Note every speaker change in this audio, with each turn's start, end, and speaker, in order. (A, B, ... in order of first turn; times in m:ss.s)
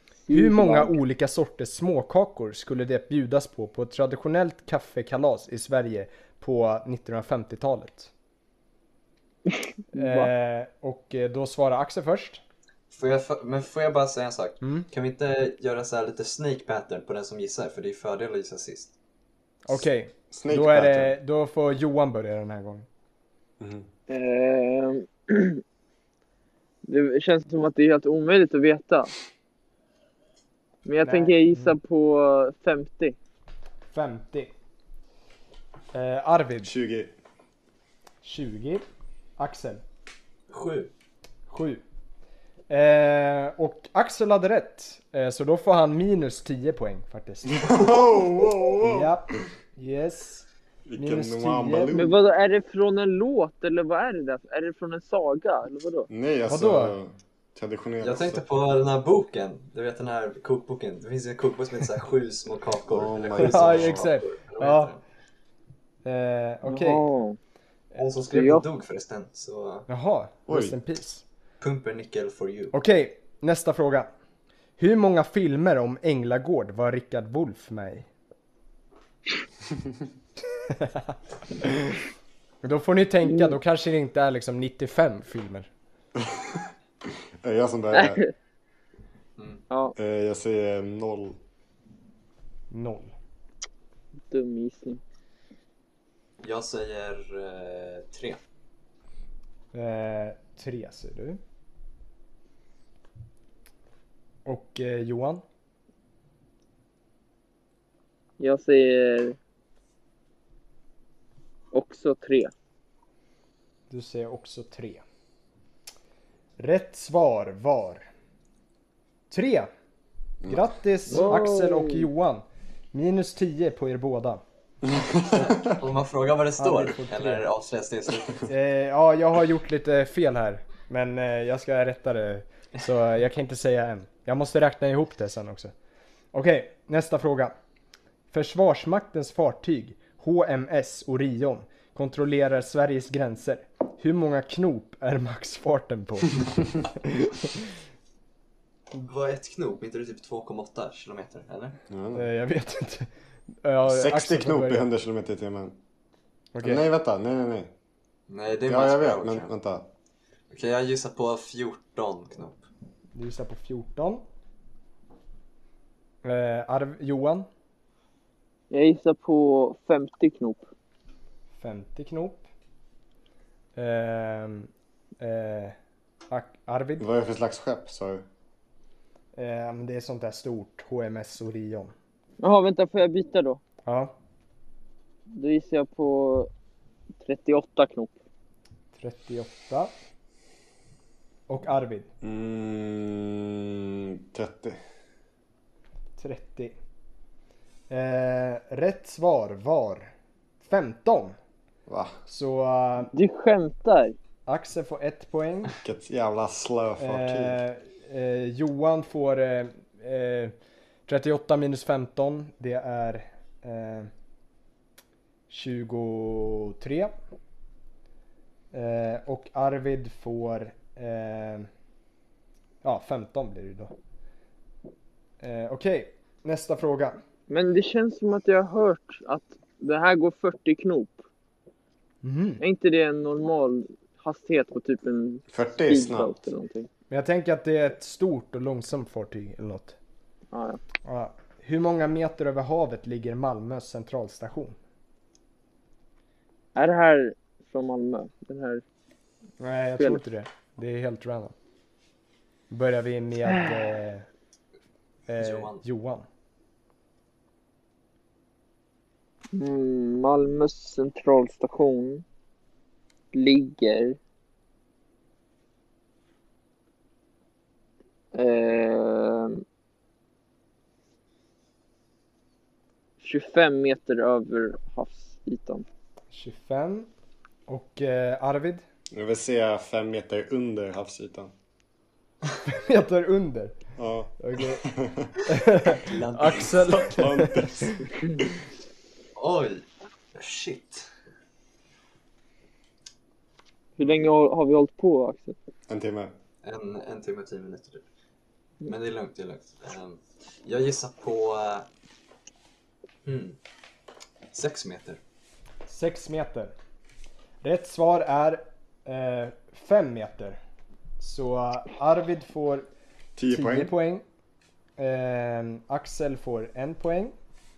0:00.3-0:00.9 A
0:00.3-0:08.1 B
0:09.9-0:12.4 B
0:10.0-0:10.3 A
0:12.9-0:18.9 C
0:19.7-0:22.9 B
0:20.3-0:21.2 D
0:23.6-0:23.9 D
0:24.1-0:25.6 A
0:26.9-0:29.1 A
0:30.8-0:33.2 A
0:31.0-0:31.7 B
0:33.9-0:34.5 B
0:35.9-0:36.7 B
0:36.6-0:37.2 D
0:38.2-0:38.8 B
0:39.4-0:39.8 B
0:40.5-0:40.9 C
0:41.5-0:41.8 B
0:42.7-0:47.6 B
0:47.5-0:49.1 D
0:48.8-0:50.5 B
0:50.9-0:52.2 D
0:51.0-0:52.0 B
0:51.9-0:56.1 A
0:56.1-0:58.4 D
0:56.5-0:57.0 B
0:58.0-1:05.0 C
1:02.9-1:04.0 D
1:03.4-1:04.9 B
1:06.0-1:07.0 B
1:06.7-1:07.4 A
1:08.0-1:09.9 C
1:08.3-1:08.6 A
1:09.9-1:11.2 B
1:10.5-1:10.8 D
1:11.6-1:12.7 C
1:12.7-1:14.1 B
1:14.8-1:18.1 B
1:20.7-1:21.0 B
1:21.6-1:22.0 B
1:22.6-1:25.7 B
1:26.2-1:28.2 D
1:27.9-1:28.3 A
1:29.4-1:29.6 C
1:30.0-1:31.4 D
1:32.7-1:33.1 B
1:34.3-1:35.0 A
1:36.4-1:38.4 C
1:39.7-1:41.4 B
1:44.4-1:45.4 B
1:48.4-1:49.4 A
1:51.7-1:52.5 A
1:53.9-1:55.0 B
1:56.6-1:58.1 B
1:59.3-1:59.7 B
2:00.4-2:00.7 D
2:00.5-2:04.4 B
2:01.1-2:02.1 A
2:04.8-2:05.8 D
2:05.2-2:08.4 C
2:06.6-2:07.5 B
2:08.5-2:15.7 B
2:16.3-2:17.5 B
2:18.3-2:27.6 B
2:29.0-2:31.8 C
2:31.9-2:32.3 D
2:32.2-2:33.1 B
2:33.6-2:34.9 B
2:33.8-2:35.8 D
2:36.5-2:36.8 B
2:36.6-2:37.7 D
2:38.3-2:39.5 C
2:38.6-2:39.9 D
2:40.5-2:42.6 C
2:43.2-2:44.2 B
2:46.2-2:47.5 B
2:48.7-2:50.6 A
2:51.6-2:52.4 B
2:53.8-2:55.8 B
2:56.3-2:57.1 B
2:57.0-2:58.2 D
2:59.4-3:01.9 B
3:02.4-3:03.6 A
3:03.9-3:04.1 B
3:05.4-3:06.5 A
3:07.2-3:08.1 A
3:09.0-3:09.9 B
3:11.5-3:12.1 B
3:12.2-3:14.8 D
3:16.2-3:16.8 B
3:17.9-3:20.1 B
3:20.6-3:21.4 B
3:21.9-3:22.2 D
3:22.3-3:23.1 B
3:23.1-3:24.2 A
3:24.5-3:25.7 B
3:25.8-3:27.6 D
3:27.0-3:30.5 B
3:31.1-3:34.1 B
3:35.5-3:37.1 B
3:38.7-3:41.7 B
3:42.8-3:43.9 B
3:45.4-3:47.2 B
3:47.5-3:51.2 A
3:52.2-3:52.6 B
3:52.6-3:56.9 A
3:55.5-3:56.3 D
3:57.1-4:00.0 B
4:00.5-4:00.8 A
4:01.0-4:04.8 B
4:06.8-4:08.8 A
4:09.6-4:11.5 B
4:12.7-4:14.3 B
4:13.5-4:13.9 A
4:15.3-4:16.3 B
4:15.4-4:15.8 C
4:19.5-4:22.2 A
4:23.3-4:24.2 A
4:28.4-4:29.6 A
4:33.2-4:35.8 A
4:36.3-4:37.1 B
4:37.7-4:38.8 B
4:39.1-4:41.5 D
4:42.7-4:43.8 B
4:44.0-4:45.3 D
4:44.4-4:44.9 B
4:45.4-4:48.0 B
4:46.0-4:47.0 C
4:46.9-4:48.4 D
4:49.4-4:51.1 C
4:54.0-4:55.6 A
4:55.9-4:56.3 D
4:56.6-4:58.0 C
4:58.8-5:01.9 C
5:03.2-5:03.6 C
5:04.5-5:05.2 C
5:05.9-5:06.7 B
5:07.6-5:10.6 B
5:11.2-5:12.9 B
5:13.4-5:13.9 D
5:13.5-5:14.2 B
5:15.0-5:17.3 B